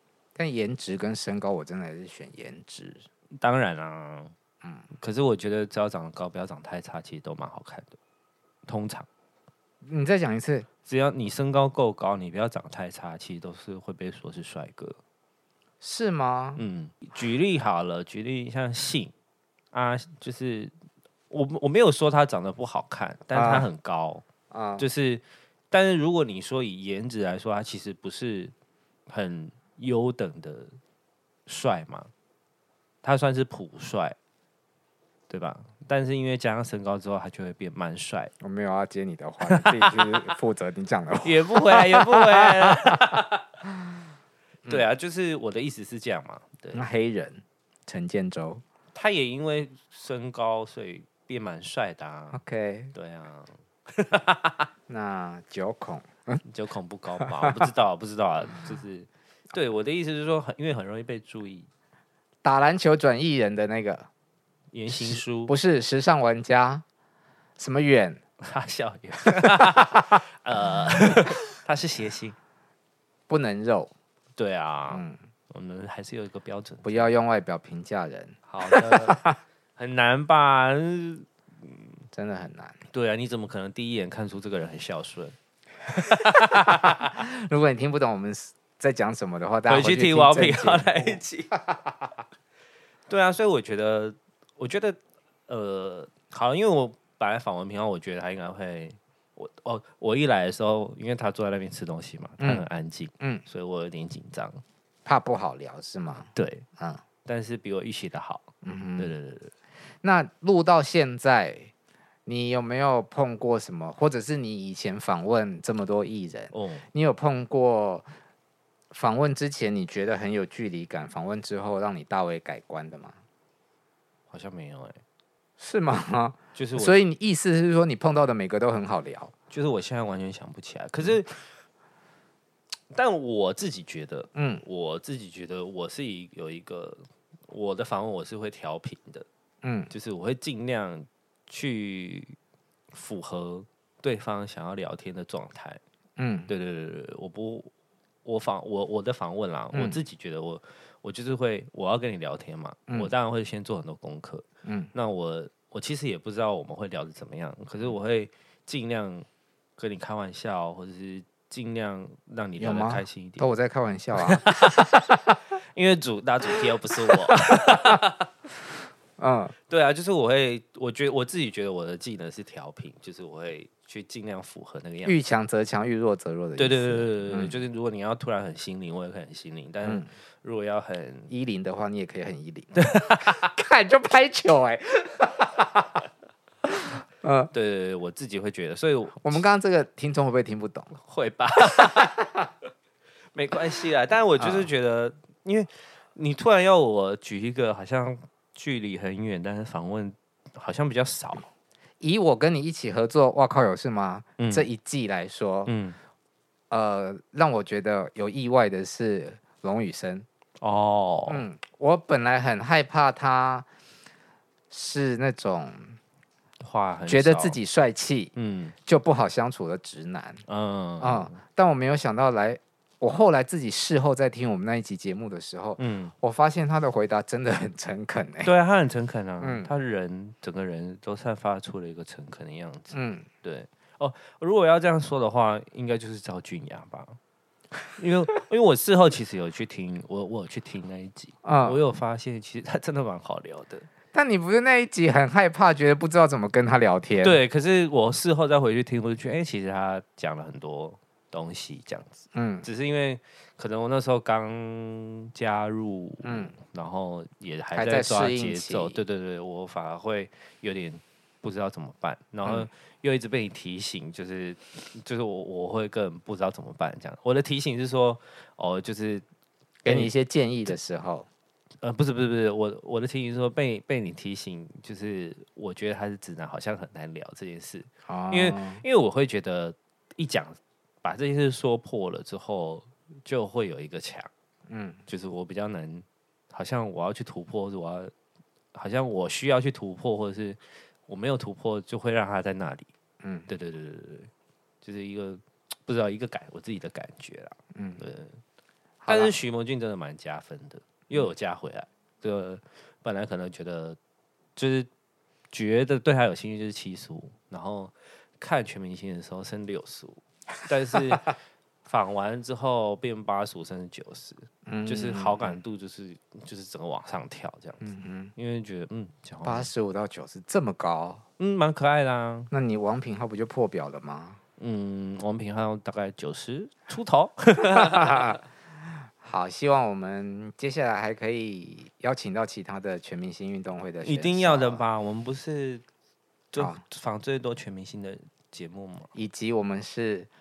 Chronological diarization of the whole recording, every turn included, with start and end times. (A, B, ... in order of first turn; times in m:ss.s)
0:00.4-0:03.0 A
0:03.4-0:04.3 B
0:04.9-0:08.0 B
0:08.6-0:09.1 B
0:09.8-0:10.7 A
0:10.8-0:15.0 B
0:15.8-0:16.6 A
0:16.6-0:19.1 B
0:19.7-0:20.7 B
0:21.3-0:24.2 B
0:23.3-0:23.7 A
0:24.5-0:24.8 A
0:24.8-0:28.5 B
0:29.1-0:30.8 B
0:31.5-0:32.1 B
0:33.0-0:34.2 B
0:35.3-0:38.3 B
0:38.4-0:43.0 A
0:39.4-0:40.3 B
0:41.2-0:43.4 B
0:44.6-0:46.8 B
0:46.7-0:48.6 A
0:48.9-0:52.4 B
0:52.3-0:52.9 A
0:52.9-0:54.7 B
0:54.9-0:56.4 A
0:56.4-1:01.7 B
0:57.2-0:57.7 A
1:02.4-1:04.0 A
1:04.7-1:05.5 B
1:04.9-1:06.8 A
1:07.6-1:08.2 A
1:08.4-1:12.4 B
1:09.5-1:09.9 A
1:13.3-1:13.9 A
1:14.4-1:17.1 B
1:14.9-1:15.2 A
1:16.8-1:19.4 A
1:18.5-1:19.2 B
1:19.8-1:22.0 B
1:22.1-1:22.8 A
1:22.9-1:25.4 B
1:25.9-1:27.1 B
1:26.7-1:31.2 A
1:29.6-1:31.7 B
1:33.1-1:44.6 B
1:42.4-1:42.7 A
1:45.0-1:47.0 A
1:46.3-1:46.7 B
1:47.2-1:49.5 B
1:48.6-1:49.1 A
1:50.0-1:51.7 A
1:52.2-1:58.1 A
1:56.5-1:56.8 B
1:58.9-2:03.2 A
2:04.3-2:05.0 B
2:05.6-2:09.3 A
2:06.5-2:07.0 B
2:09.5-2:11.5 B
2:12.9-2:19.2 B
2:14.3-2:14.6 A
2:19.6-2:19.9 A
2:19.9-2:22.4 B
2:22.9-2:25.8 B
2:26.2-2:26.5 A
2:26.5-2:27.7 B
2:28.2-2:43.5 B
2:29.7-2:30.0 A
2:34.6-2:34.9 A
2:42.6-2:44.5 A
2:44.2-2:45.0 B
2:45.6-2:48.3 B
2:49.2-2:49.5 A
2:49.7-2:55.2 B
2:55.0-2:57.6 A
2:56.6-3:01.3 B
2:59.8-3:00.1 A
3:01.3-3:05.9 A
3:02.8-3:03.4 B
3:07.2-3:07.5 A
3:07.5-3:09.4 B
3:09.2-3:10.9 A
3:10.9-3:12.3 B
3:13.3-3:21.5 B
3:14.4-3:14.7 A
3:22.0-3:25.7 A
3:24.4-3:24.7 B
3:25.6-3:26.0 B
3:26.7-3:30.2 A
3:30.6-3:31.5 B
3:31.3-3:33.6 A
3:34.7-3:36.0 A
3:36.6-3:37.6 B
3:37.1-3:38.3 A
3:38.3-3:38.8 B
3:38.8-3:40.4 A
3:40.5-3:41.4 B
3:41.0-3:48.5 A
3:45.8-3:46.1 B
3:48.4-3:57.2 B
3:49.4-3:49.7 A
3:52.9-3:53.3 A
3:57.9-4:03.9 B
4:01.4-4:01.8 A
4:04.1-4:07.4 A
4:07.2-4:29.2 B
4:12.3-4:12.7 A
4:16.2-4:16.5 A
4:17.7-4:19.0 A
4:29.8-4:31.3 A
4:29.8-4:30.1 B
4:31.8-4:44.3 B
4:38.1-4:38.8 A
4:44.7-4:45.0 A
4:45.1-4:48.1 B
4:48.7-4:52.9 B
4:53.2-4:53.5 A
4:53.5-4:54.3 B
4:54.8-4:58.4 B
4:57.7-4:58.0 A
4:59.0-4:59.4 A
4:59.1-5:04.0 B
5:04.6-5:04.9 B
5:05.5-5:19.7 B
5:14.6-5:15.6 A
5:17.8-5:18.3 A
5:19.4-5:21.2 A
5:21.4-5:22.5 B
5:22.5-5:24.4 A
5:24.6-5:28.4 B
5:27.9-5:28.4 A
5:29.2-5:34.8 A
5:34.0-5:35.8 B
5:36.5-5:39.1 B
5:36.6-5:36.8 A
5:39.1-5:40.3 A